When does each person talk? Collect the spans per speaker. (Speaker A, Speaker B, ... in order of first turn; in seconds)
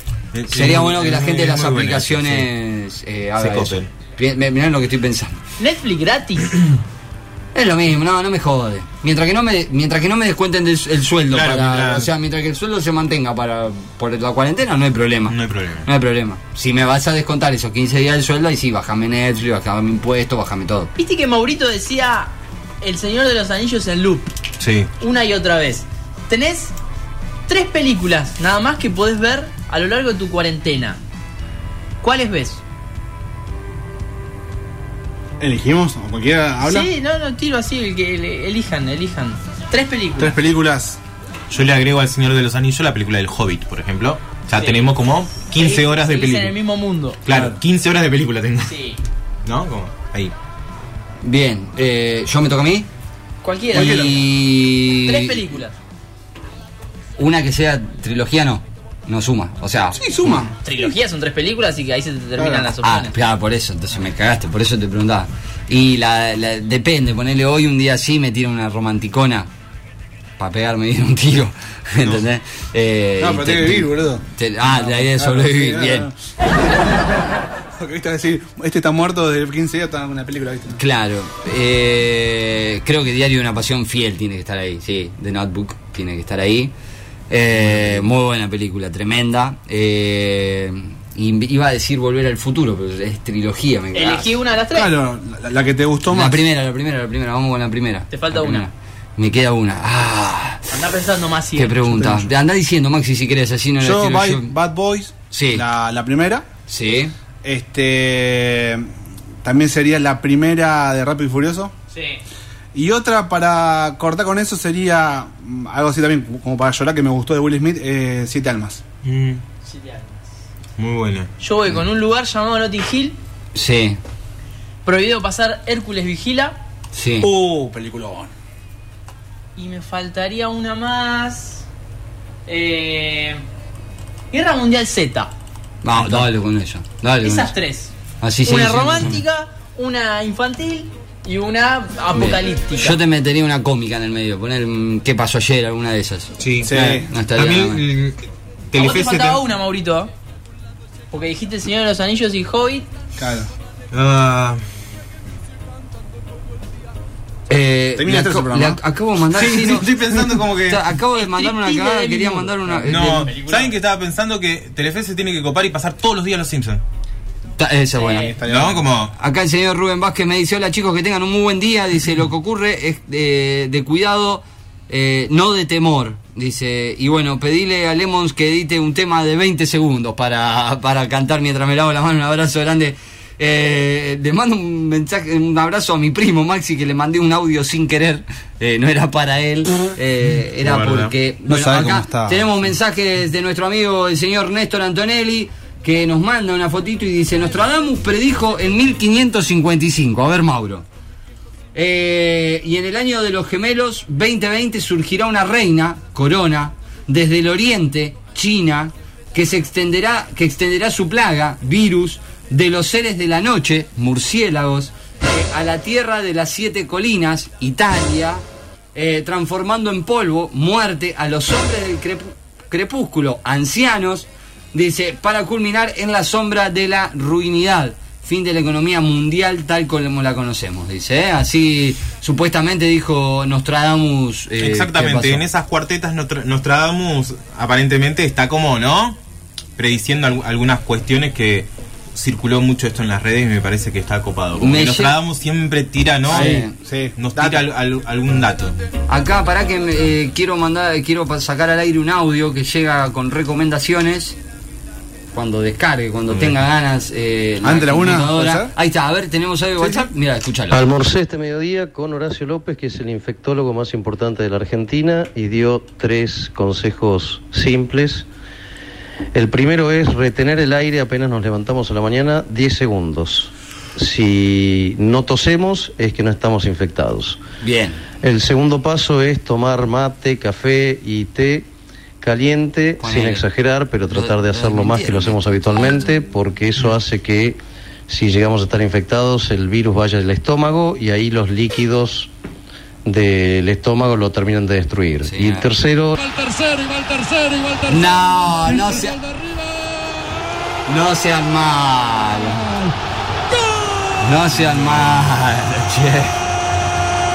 Speaker A: 0.3-2.5, 3.4-3.9, 11.3-12.1, 15.3-15.9, 24.6-24.9, 41.5-46.5, 47.2-48.7, 49.4-50.3, 72.0-72.2, 119.0-119.5, 120.8-121.3, 146.4-149.4, 153.9-154.6, 159.3-160.8, 162.8-166.8, 168.4-169.1, 190.6-191.1, 234.6-239.2, 239.8-246.6, 247.2-248.7, 256.3-256.6
Speaker B: 0.5-5.4, 7.5-20.9, 51.2-52.9, 53.7-55.4, 57.2-60.4, 62.8-69.5, 70.4-76.1, 80.7-86.7, 87.3-94.4, 96.1-100.7, 101.5-104.5, 105.3-105.7, 106.7-107.1, 123.5-124.0, 126.9-127.3, 135.8-137.5, 138.2-139.2, 142.1-147.8, 157.5-159.9, 160.5-163.3, 167.6-168.3, 169.1-200.8, 201.7-218.4, 218.9-235.4, 244.6-245.2, 246.3-246.7, 249.1-254.3, 255.3-260.9, 277.6-278.0, 283.0-283.5, 284.1-286.1, 295.2-295.7, 297.7-299.2, 300.9-302.8, 303.7-306.4
Speaker C: 5.6-6.6, 20.9-24.3, 25.0-26.7, 27.5-31.0, 32.0-32.6, 36.6-40.4, 44.5-44.9, 45.5-47.2, 48.7-49.0, 53.4-54.2, 55.0-55.8, 60.6-63.2, 93.9-95.0, 98.1-98.7, 100.7-101.8, 111.9-112.2, 119.6-120.3, 121.4-123.2, 124.8-126.6, 129.6-131.6, 132.4-133.4, 134.3-135.3, 137.2-137.9, 138.4-143.0, 148.7-150.1, 151.1-152.8, 161.2-163.7, 168.0-168.3
Speaker D: 35.4-36.9, 40.2-41.0, 47.3-47.5, 53.7-54.2, 59.9-60.7, 62.4-62.6, 73.2-80.8, 94.7-96.4, 101.9-102.3, 103.8-106.4, 107.4-108.9, 109.4-111.7, 112.7-118.8, 127.2-128.3, 146.6-147.1, 153.2-153.5, 158.0-158.8, 168.1-168.9, 191.5-192.5, 246.3-247.6, 257.6-258.7, 259.8-260.1
Speaker E: 260.7-268.2, 269.3-277.4, 278.2-281.7, 282.2-292.3, 293.0-296.4